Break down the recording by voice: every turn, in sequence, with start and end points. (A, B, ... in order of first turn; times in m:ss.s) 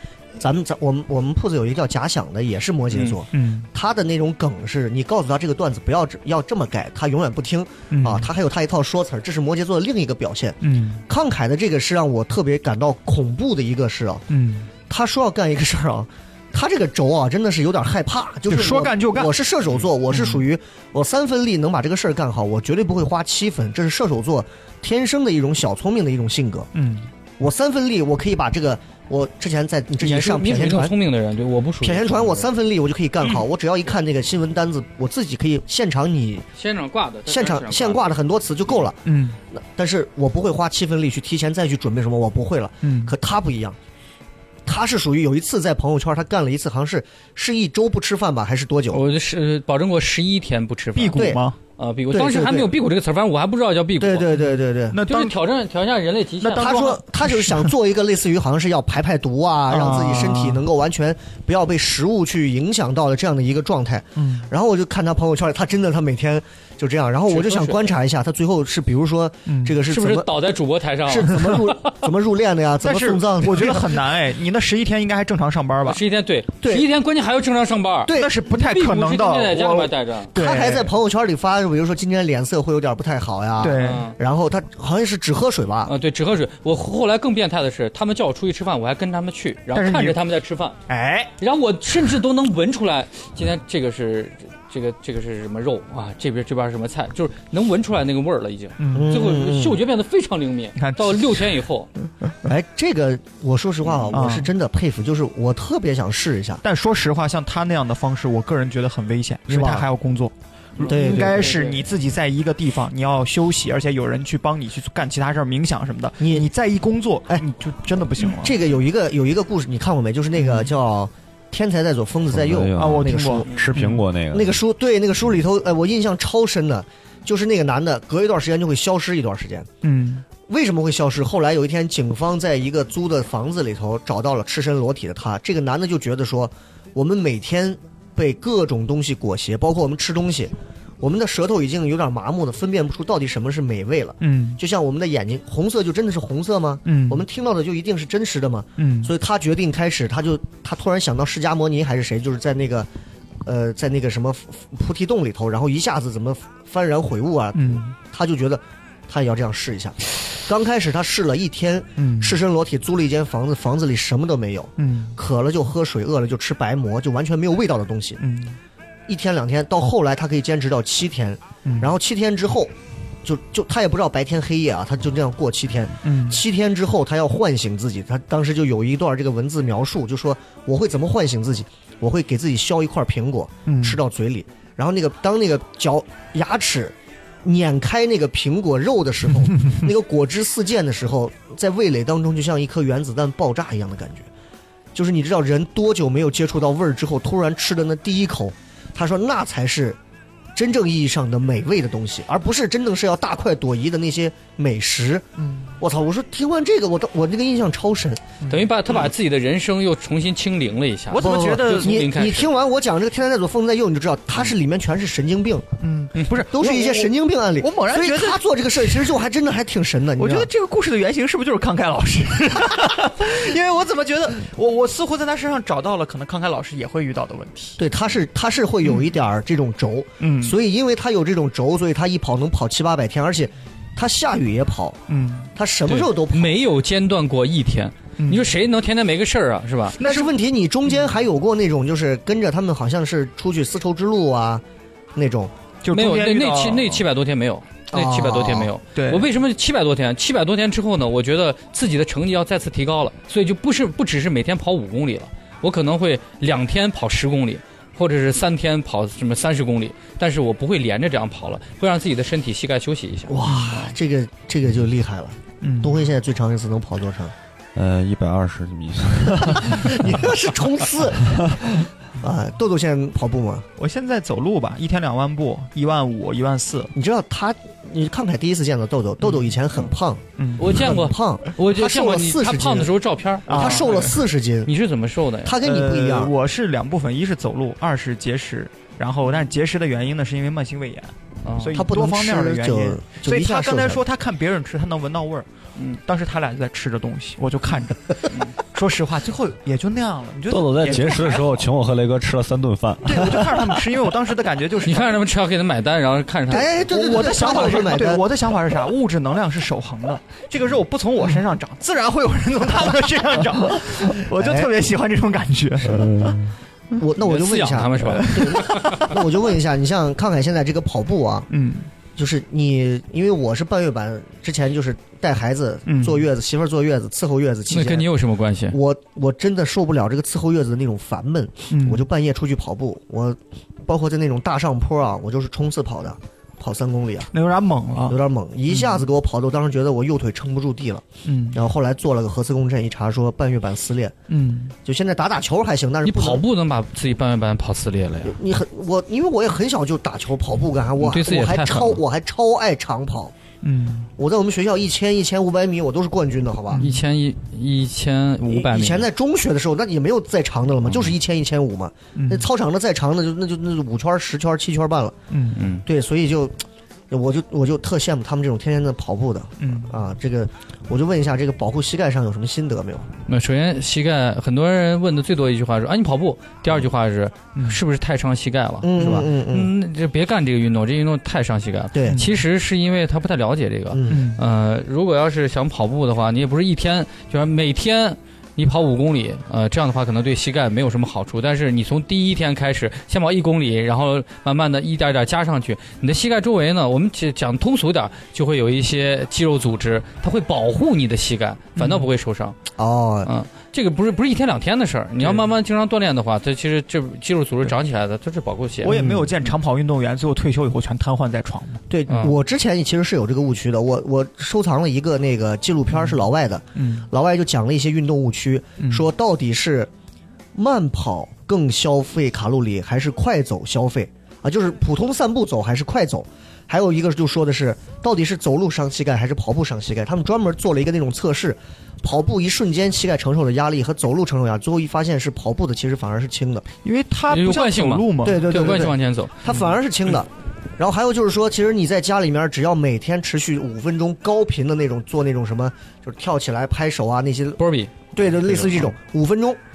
0:00.4-0:14.2 A
0:03.3-0:03.7 B
0:07.9-0:08.3 B
0:10.6-0:11.0 B
0:14.3-0:14.7 B
0:14.9-0:26.7 A
0:18.5-0:19.4 B
0:20.1-0:20.4 B
0:26.7-0:27.1 B
0:27.4-0:31.0 A
0:30.0-0:32.5 C
0:31.8-0:36.5 A
0:36.6-0:38.1 C
0:37.3-0:43.8 A
0:39.0-0:39.4 B
0:42.8-0:43.1 B
0:44.6-0:49.0 A
0:48.9-0:54.3 C
0:51.0-0:51.6 B
0:51.1-0:51.4 A
0:52.1-0:52.7 A
0:54.0-0:55.0 A
0:54.9-0:55.4 B
0:55.1-0:56.8 C
0:56.4-0:57.7 B
0:56.6-1:10.4 A
0:59.7-1:00.6 B
1:04.2-1:04.5 B
1:07.3-1:07.9 C
1:09.4-1:09.8 B
1:09.9-1:11.9 C
1:11.0-1:14.0 A
1:12.8-1:16.0 B
1:15.8-1:20.3 C
1:16.6-1:16.9 A
1:18.0-1:18.3 A
1:18.1-1:20.9 B
1:20.3-1:25.9 A
1:23.6-1:24.0 B
1:23.8-1:24.2 C
1:25.8-1:30.8 C
1:29.7-1:30.2 B
1:30.9-1:31.3 B
1:31.4-1:41.9 C
1:38.8-1:39.2 B
1:38.9-1:39.8 A
1:40.8-1:41.5 B
1:42.4-1:46.6 A
1:44.1-1:44.5 B
1:46.6-1:58.6 B
1:49.5-1:49.9 A
1:50.8-1:51.8 C
1:50.9-1:51.6 A
1:56.2-1:56.5 A
1:58.2-2:03.6 A
2:00.4-2:00.7 B
2:02.3-2:04.6 D
2:02.8-2:04.0 B
2:04.3-2:09.7 A
2:09.8-2:10.2 B
2:10.5-2:32.9 A
2:24.2-2:24.6 B
2:26.8-2:27.2 B
2:28.8-2:29.1 B
2:33.4-2:48.2 A
2:37.5-2:37.9 B
2:42.0-2:42.4 B
2:44.8-2:45.1 B
2:48.2-2:48.6 B
2:49.1-3:14.3 A
2:51.6-2:51.9 B
2:56.0-2:56.4 B
3:03.6-3:04.0 B
3:14.9-3:20.0 A
3:20.5-3:25.2 A
3:25.4-3:25.7 B
3:25.8-3:28.2 A
3:28.4-3:28.7 B
3:28.5-3:32.5 C
3:31.1-3:32.0 B
3:31.2-3:35.7 A
3:35.8-3:39.1 B
3:36.4-3:40.5 A
3:40.2-3:47.8 B
3:47.8-3:55.0 A
3:50.2-3:50.6 B
3:55.1-3:55.5 B
3:55.5-3:56.6 A
3:55.9-4:00.0 C
3:58.2-3:58.5 B
4:00.0-4:00.3 B
4:00.0-4:04.6 A
4:05.1-4:05.5 A
4:05.8-4:07.0 B
4:05.9-4:23.8 C
4:07.9-4:08.7 A
4:08.9-4:09.3 B
4:23.3-4:27.3 A
4:23.4-4:23.8 B
4:25.6-4:26.0 B
4:27.7-4:30.2 D
4:29.4-4:33.7 A
4:33.8-4:36.9 B
4:36.9-4:43.0 A
4:40.4-4:40.9 B
4:40.6-4:45.5 C
4:43.5-4:44.1 B
4:43.5-4:44.7 A
4:45.4-4:46.3 A
4:45.6-4:55.4 B
4:51.4-4:51.8 C
4:51.7-4:54.0 A
4:56.0-5:01.6 B
5:00.5-5:03.8 D
5:03.0-5:05.2 B
5:04.8-5:06.7 C
5:06.5-5:08.2 A
5:06.8-5:16.4 B
5:14.3-5:14.7 A
5:15.9-5:16.2 A
5:15.9-5:16.4 D
5:16.9-5:21.5 A
5:17.2-5:19.1 C
5:18.0-5:19.1 B
5:21.5-5:21.9 B
5:22.2-5:28.1 A
5:25.9-5:26.3 B
5:27.7-5:28.8 C
5:28.7-5:37.3 A
5:31.7-5:32.0 B
5:37.3-5:38.2 B
5:38.1-5:44.1 A
5:41.2-5:41.6 B
5:44.3-5:44.7 B
5:44.8-5:46.4 A
5:46.0-5:48.4 C
5:48.2-5:53.3 A
5:51.0-5:52.0 C
5:53.6-5:54.1 B
5:54.2-5:56.8 A
5:56.7-5:57.0 B
5:56.8-5:59.1 C
5:58.4-6:05.2 A
6:02.1-6:02.4 B
6:05.3-6:05.6 B
6:05.5-6:05.8 C
6:05.8-6:06.6 A
6:07.1-6:13.1 A
6:09.6-6:09.9 B
6:13.3-6:42.6 C
6:17.5-6:17.8 B
6:18.8-6:19.7 A
6:21.9-6:22.2 A
6:22.1-6:22.3 B
6:23.9-6:24.2 A
6:24.1-6:24.4 B
6:41.8-6:42.0 B
6:42.8-6:43.3 A
6:43.2-6:49.0 C
6:48.8-6:51.8 B
6:48.9-6:49.3 A
6:51.9-6:59.9 A
6:52.1-6:52.4 C
6:56.7-6:57.1 B
6:58.8-6:59.0 B
7:00.5-7:16.6 A
7:16.8-7:18.9 B
7:17.3-7:19.5 C
7:18.2-7:27.6 A
7:27.6-7:27.9 C
7:28.1-7:29.6 A